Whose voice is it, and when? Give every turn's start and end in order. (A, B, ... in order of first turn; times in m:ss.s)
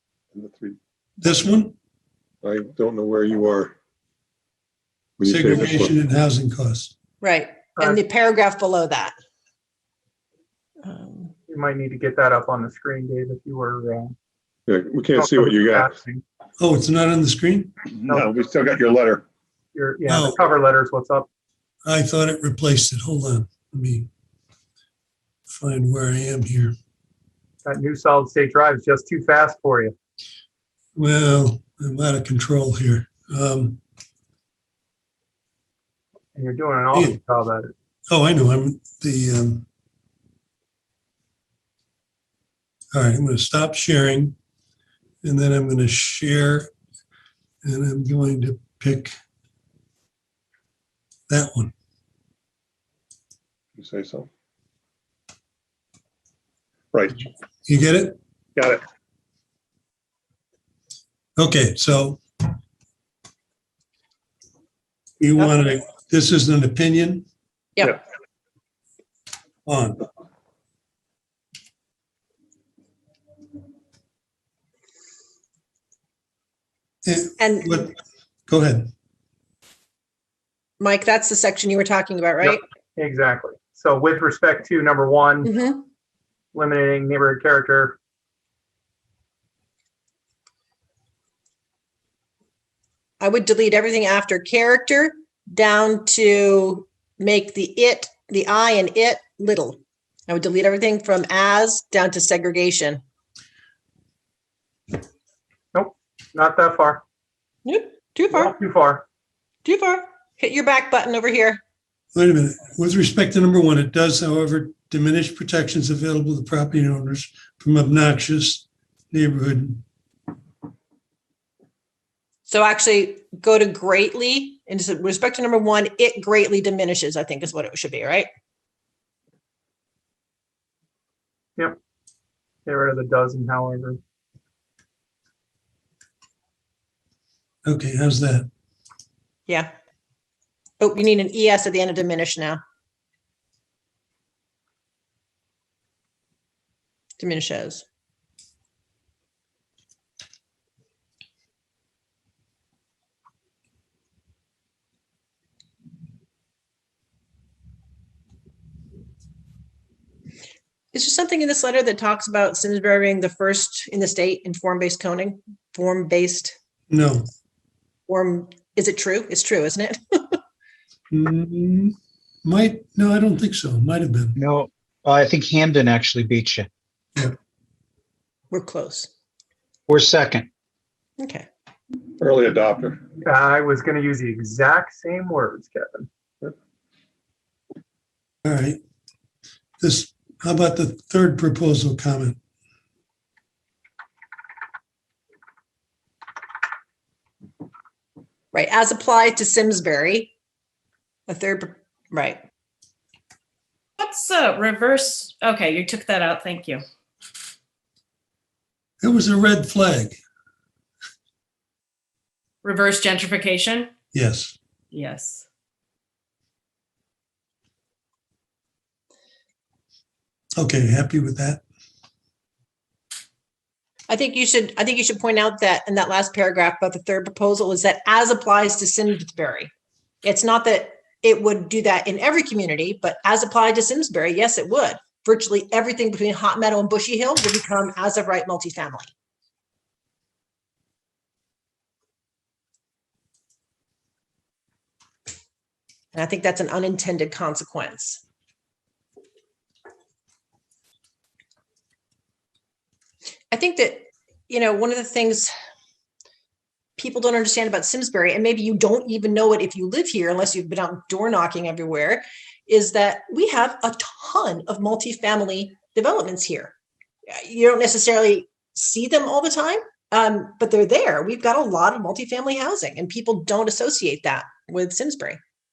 0:00.3-0:00.8 A
0:01.2-0:01.7 B
0:02.4-0:03.7 A
0:05.2-0:05.9 A
0:05.2-0:06.9 B
0:07.2-0:09.1 C
0:10.8-0:11.3 C
0:11.5-0:14.1 D
0:14.7-0:15.9 A
0:15.2-0:16.2 D
0:16.6-0:17.7 B
0:18.0-0:19.2 A
0:19.7-0:21.3 D
0:20.1-0:20.4 B
0:21.8-0:24.1 B
0:25.5-0:26.7 B
0:27.6-0:29.9 D
0:31.0-0:33.8 B
0:36.3-0:37.7 D
0:38.1-0:39.6 B
0:42.9-0:44.4 B
0:45.2-0:46.7 B
0:47.6-0:49.1 B
0:51.3-0:51.7 B
0:53.7-0:54.3 A
0:56.9-0:57.2 A
0:57.6-0:58.2 B
1:01.4-1:02.2 B
1:05.2-1:07.2 B
1:09.6-1:10.0 B
1:17.0-1:17.9 B
1:17.4-1:17.7 C
1:18.5-1:18.9 B
1:20.8-1:22.6 C
1:22.4-1:25.5 D
1:25.4-1:25.8 C
1:26.5-1:28.0 D
1:33.2-1:43.0 C
1:45.7-1:47.0 D
1:47.6-1:48.5 C
1:48.3-1:49.0 D
1:49.6-1:51.6 C
1:52.1-1:59.8 B
2:02.5-2:08.3 C
2:12.6-2:14.0 D
2:17.6-2:18.5 B
2:20.8-2:22.6 C
2:27.2-2:27.8 C
2:40.9-2:46.5 C
2:46.9-2:47.3 B
2:48.1-2:50.4 C
2:51.1-2:54.4 B
2:54.3-2:56.7 E
2:58.5-2:59.1 C
2:59.9-3:00.5 E
3:01.2-3:01.5 C
3:02.2-3:03.0 A
3:03.2-3:06.1 D
3:08.4-3:08.8 B
3:09.8-3:12.4 B
3:18.5-3:20.3 C
3:21.3-3:22.4 C
3:24.0-3:26.8 F
3:29.0-3:30.2 B
3:32.6-3:33.9 F
3:34.1-3:34.6 B
3:34.9-3:35.4 F
3:40.6-3:41.6 B
3:44.1-3:49.7 C
3:50.2-3:59.1 C
4:06.1-4:08.2 C
4:13.5-4:15.5 C
4:17.0-4:26.7 C
4:27.3-4:35.4 C